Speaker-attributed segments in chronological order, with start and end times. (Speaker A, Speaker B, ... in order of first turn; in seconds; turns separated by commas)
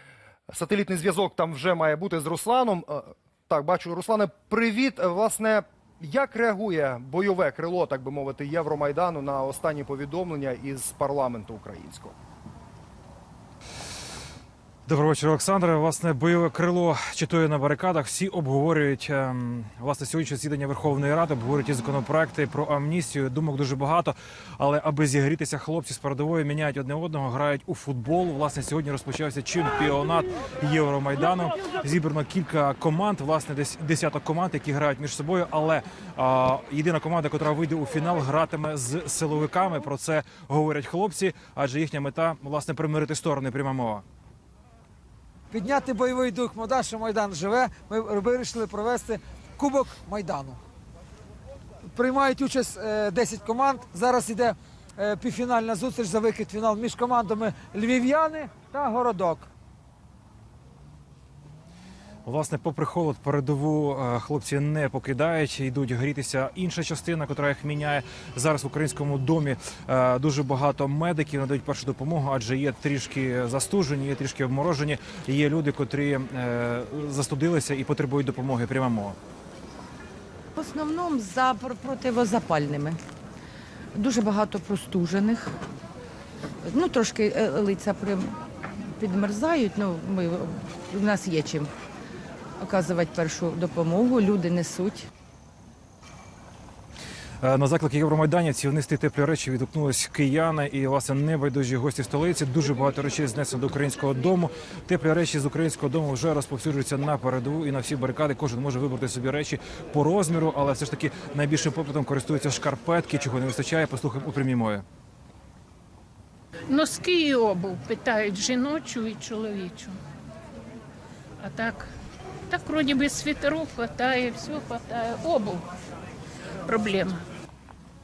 Speaker A: 0.5-12.1, Speaker B: 14.8-44.0, Speaker C: 45.5-50.6, Speaker C: 51.9-59.5, Speaker B: 62.2-79.2, Speaker D: 80.5-83.0, Speaker D: 83.9-85.6, Speaker D: 86.6-91.7, Speaker D: 92.6-95.1, Speaker B: 97.4-114.8, Speaker E: 116.7-120.0, Speaker E: 121.4-121.9, Speaker E: 122.5-125.7, Speaker E: 126.7-127.2